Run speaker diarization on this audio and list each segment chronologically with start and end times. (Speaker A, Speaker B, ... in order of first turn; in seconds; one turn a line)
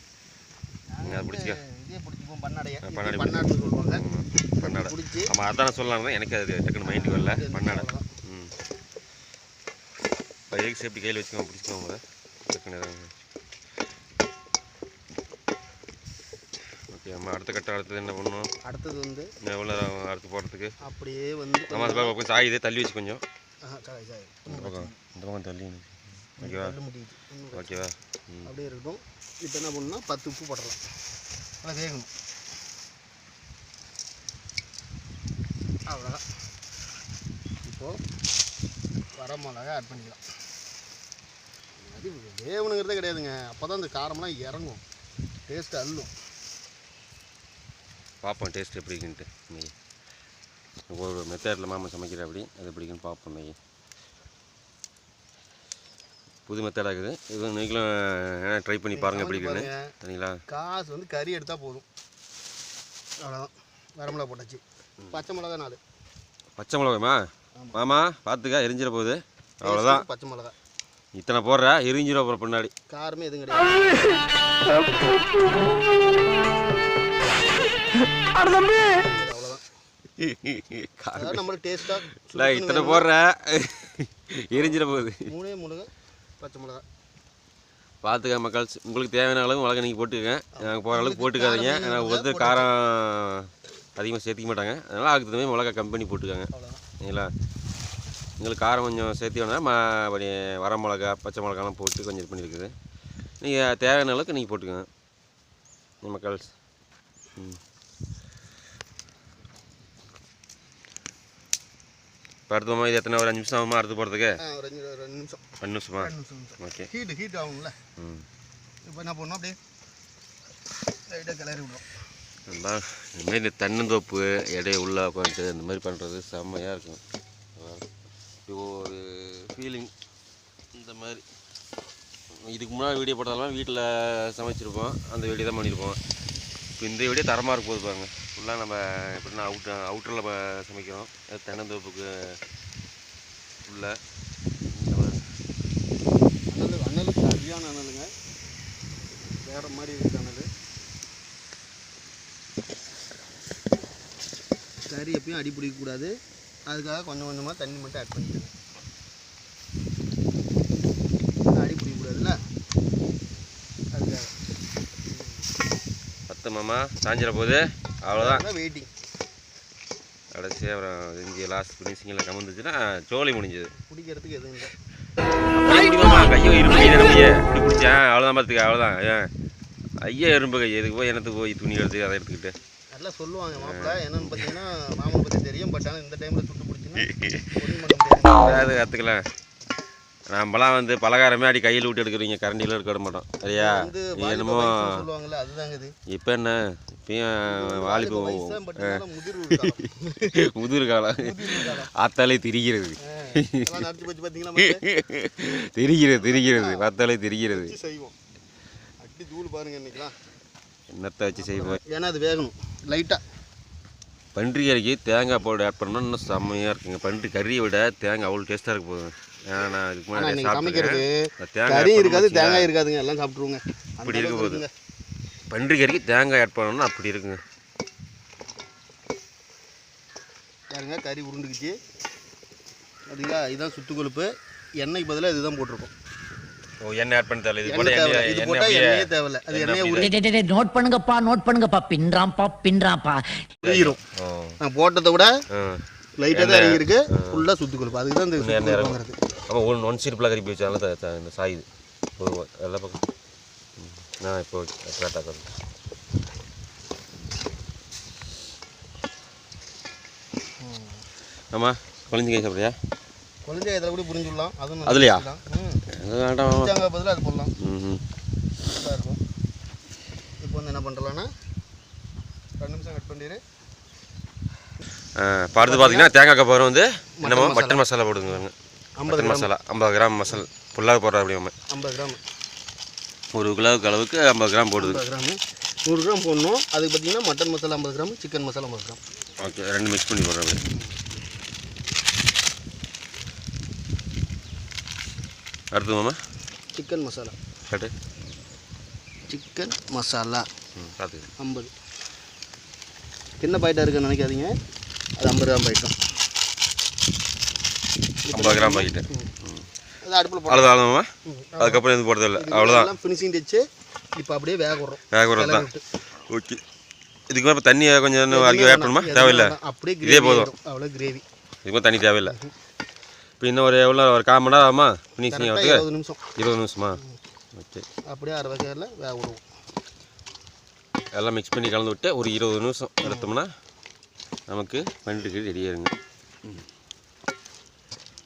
Speaker A: 0.9-4.0
Speaker B: 1.1-1.6
Speaker B: 2.8-8.5
Speaker A: 4.6-5.3
Speaker A: 6.8-8.1
Speaker B: 10.5-13.1
Speaker B: 16.9-18.5
Speaker A: 18.6-19.3
Speaker B: 19.4-20.7
Speaker A: 20.8-22.2
Speaker B: 21.7-23.2
Speaker A: 23.6-24.9
Speaker B: 24.4-26.7
Speaker A: 26.4-27.8
Speaker B: 27.5-28.5
Speaker A: 28.4-30.8
Speaker A: 31.6-32.1
Speaker A: 35.9-36.2
Speaker A: 37.6-38.0
Speaker A: 39.1-40.2
Speaker A: 41.8-44.8
Speaker A: 45.5-46.1
Speaker B: 48.2-49.7
Speaker B: 50.9-53.5
Speaker B: 56.5-60.4
Speaker A: 58.9-59.9
Speaker A: 60.5-61.9
Speaker A: 63.2-65.8
Speaker B: 66.6-67.2
Speaker B: 67.7-70.0
Speaker A: 69.6-70.5
Speaker B: 71.2-72.7
Speaker A: 72.9-74.1
Speaker A: 74.9-75.2
Speaker A: 78.9-79.6
Speaker B: 80.2-81.4
Speaker A: 81.1-83.1
Speaker B: 82.1-85.3
Speaker A: 84.5-86.8
Speaker B: 88.0-97.3
Speaker A: 90.5-92.7
Speaker A: 96.5-96.8
Speaker B: 98.4-102.7
Speaker B: 103.4-104.9
Speaker B: 106.0-106.5
Speaker B: 112.5-114.4
Speaker A: 114.4-115.4
Speaker B: 115.6-116.9
Speaker A: 116.0-117.8
Speaker B: 118.0-118.2
Speaker A: 118.8-119.6
Speaker A: 121.1-121.8
Speaker B: 122.5-127.0
Speaker B: 127.5-127.8
Speaker B: 128.5-129.9
Speaker B: 130.7-131.2
Speaker B: 132.4-136.0
Speaker B: 136.8-142.3
Speaker B: 143.6-143.9
Speaker B: 144.7-145.2
Speaker A: 146.5-148.1
Speaker A: 149.4-150.5
Speaker A: 154.9-156.1
Speaker A: 156.7-158.5
Speaker A: 161.4-162.4
Speaker A: 163.9-164.3
Speaker A: 165.1-165.4
Speaker B: 166.3-168.4
Speaker A: 168.1-168.9
Speaker B: 170.3-173.7
Speaker A: 173.7-174.7
Speaker B: 175.5-179.3
Speaker B: 180.0-182.5
Speaker A: 182.9-188.8
Speaker B: 183.6-184.5
Speaker B: 187.1-187.6
Speaker B: 188.3-189.2
Speaker B: 190.3-195.1
Speaker A: 193.5-195.9
Speaker B: 196.1-203.8
Speaker A: 197.5-200.5
Speaker A: 201.2-201.9
Speaker A: 203.0-204.8
Speaker B: 204.6-207.7
Speaker A: 206.2-206.9
Speaker A: 207.5-208.2
Speaker A: 209.0-210.2
Speaker B: 210.9-211.8
Speaker A: 211.3-213.2
Speaker B: 214.3-222.7
Speaker A: 220.1-224.7
Speaker B: 224.0-224.6
Speaker B: 225.5-227.4
Speaker A: 230.7-231.8
Speaker A: 233.1-235.9
Speaker B: 236.8-240.1
Speaker A: 237.6-240.1
Speaker C: 240.0-243.2
Speaker A: 243.6-244.0
Speaker B: 243.6-244.6
Speaker A: 244.6-245.3
Speaker B: 245.5-247.4
Speaker A: 246.2-249.2
Speaker B: 248.4-249.0
Speaker B: 249.5-251.6
Speaker B: 252.2-253.0
Speaker B: 253.8-255.5
Speaker A: 260.6-261.0
Speaker B: 261.5-262.7
Speaker A: 263.4-265.8
Speaker B: 264.9-265.3
Speaker B: 265.9-266.8
Speaker A: 266.4-267.5
Speaker B: 267.6-268.0
Speaker A: 268.6-269.2
Speaker A: 270.4-271.3
Speaker A: 272.6-273.4
Speaker B: 275.2-278.5
Speaker A: 275.6-276.1
Speaker A: 277.2-278.4
Speaker A: 279.0-279.5
Speaker B: 279.1-281.5
Speaker A: 281.7-282.2
Speaker B: 283.3-285.0
Speaker A: 284.8-289.0
Speaker B: 289.4-290.6
Speaker A: 290.6-291.0
Speaker B: 295.7-296.2
Speaker A: 296.8-297.4
Speaker A: 299.3-300.5
Speaker B: 300.8-301.3
Speaker A: 301.4-301.7
Speaker A: 303.4-304.5
Speaker A: 305.2-305.9
Speaker A: 308.2-309.3
Speaker B: 308.3-309.6
Speaker A: 310.0-315.8
Speaker B: 310.5-312.9
Speaker B: 315.1-315.7
Speaker B: 316.3-316.6
Speaker B: 317.3-320.5
Speaker A: 318.3-321.2
Speaker B: 321.6-322.4
Speaker A: 322.2-322.5
Speaker B: 323.4-327.0
Speaker A: 325.3-326.3
Speaker B: 327.5-327.9
Speaker A: 328.1-329.4
Speaker B: 331.1-333.5
Speaker A: 333.0-333.3
Speaker B: 334.5-335.9